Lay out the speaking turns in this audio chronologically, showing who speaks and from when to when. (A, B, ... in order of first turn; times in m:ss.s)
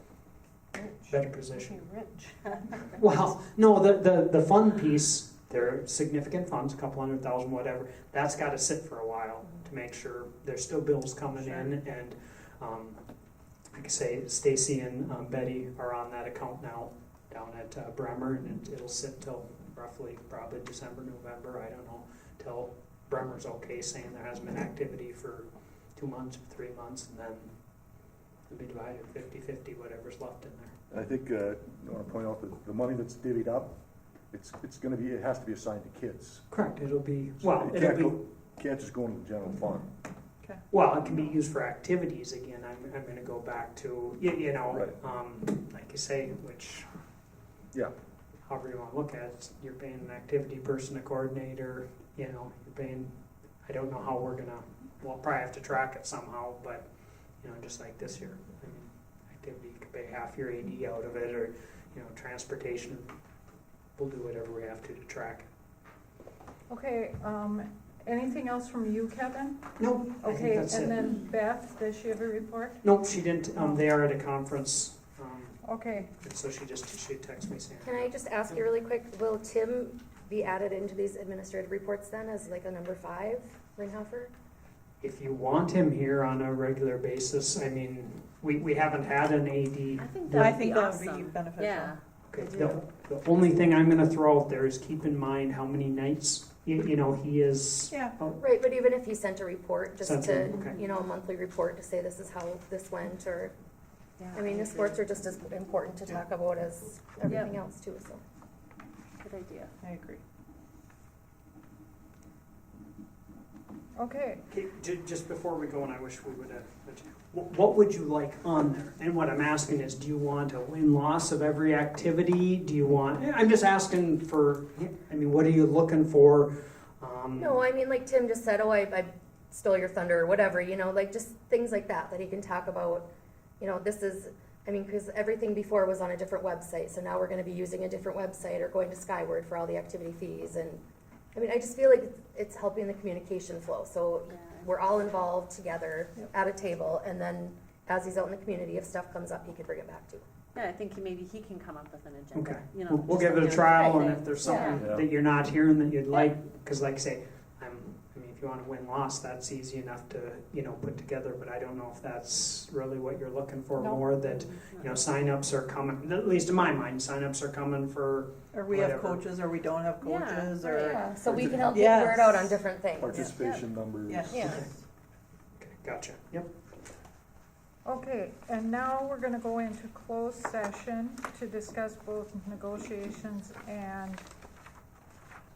0:00.7-0:03.0 A
0:01.1-0:01.8 B
0:02.9-0:13.0 B
0:11.4-0:11.7 A
0:13.7-0:27.5 B
0:28.5-0:30.7 B
0:30.9-0:33.7 C
0:34.3-0:36.5 C
0:36.5-0:38.2 B
0:37.4-0:39.9 C
0:40.7-0:46.9 B
0:48.5-0:56.9 B
0:57.4-1:03.2 B
1:04.0-1:05.5 B
1:06.7-1:13.0 A
1:09.8-1:11.1 B
1:12.8-1:15.6 B
1:13.6-1:13.8 A
1:15.6-1:16.1 A
1:16.2-1:18.6 B
1:17.8-1:24.3 D
1:25.0-1:30.6 B
1:29.9-1:32.0 E
1:30.3-1:32.8 F
1:32.3-1:38.4 B
1:37.9-1:38.2 F
1:38.4-1:43.5 D
1:40.0-1:40.8 B
1:44.2-1:45.0 E
1:44.3-1:48.2 D
1:47.3-1:47.5 E
1:49.2-1:49.7 E
1:49.8-1:50.2 F
1:54.0-1:54.4 A
1:54.5-2:07.6 B
2:07.4-2:13.1 D
2:13.6-2:20.8 D
2:21.3-2:30.2 D
2:24.3-2:24.8 E
2:30.5-2:34.8 E
2:32.3-2:49.2 B
2:34.7-2:35.1 C
2:43.8-2:44.1 A
2:44.2-2:45.1 E
2:48.5-2:52.6 F
2:50.0-2:51.1 E
2:50.8-2:53.4 D
2:53.0-2:54.6 C
2:53.1-2:53.7 E
2:54.1-2:54.7 F
2:54.3-2:54.6 D
2:55.6-2:56.5 B
2:57.8-3:04.2 A